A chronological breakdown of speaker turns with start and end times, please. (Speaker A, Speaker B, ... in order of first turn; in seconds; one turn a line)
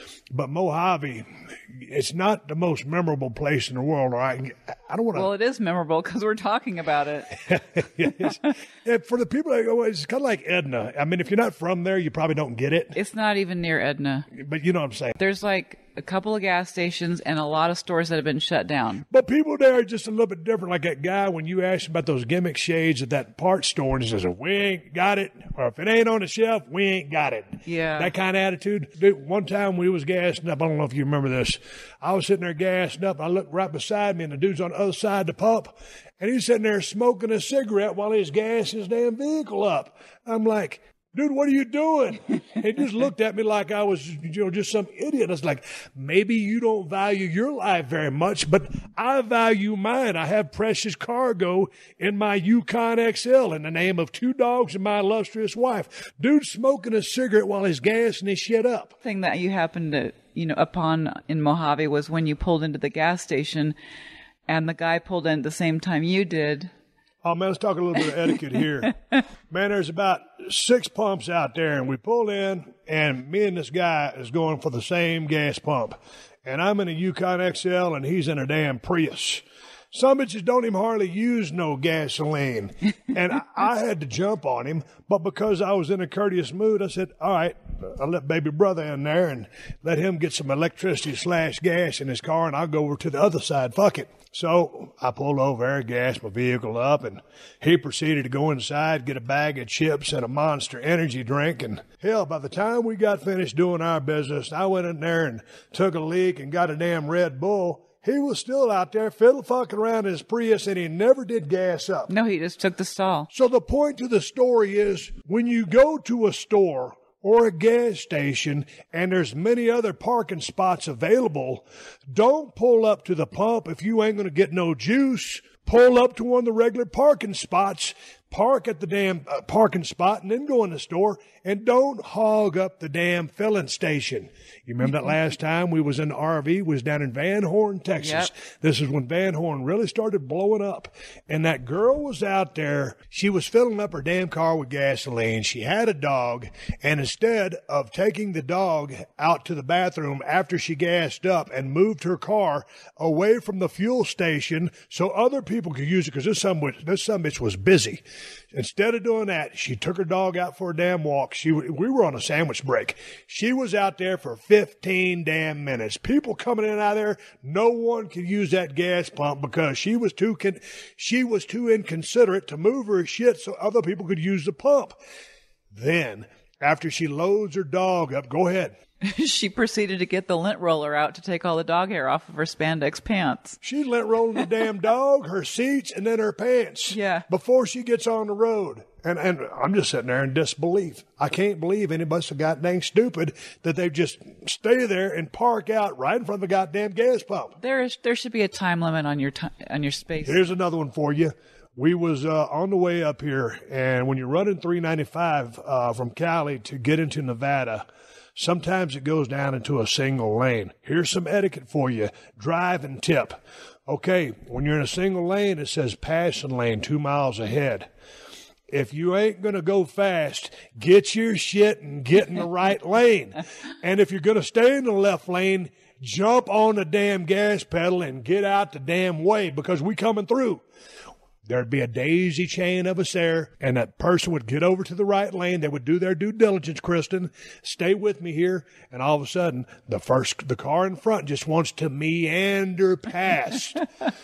Speaker A: 0.3-5.3
Speaker B: 5.1-8.5
Speaker A: 7.5-12.9
Speaker B: 12.9-14.3
Speaker A: 14.3-15.2
Speaker B: 15.2-19.0
Speaker A: 19.1-58.9
Speaker B: 27.6-28.1
Speaker B: 59.0-63.7
Speaker B: 64.5-66.7
Speaker A: 67.2-68.9
Speaker A: 69.5-112.1
Speaker B: 112.1-113.3
Speaker A: 113.3-158.0
Speaker B: 138.0-138.3
Speaker A: 158.5-175.0
Speaker A: 175.7-178.7
Speaker B: 179.0-183.6
Speaker A: 183.6-197.6
Speaker B: 186.9-187.2
Speaker B: 197.6-200.4
Speaker A: 200.2-207.8
Speaker A: 208.3-217.9
Speaker A: 218.7-230.6
Speaker A: 231.4-243.9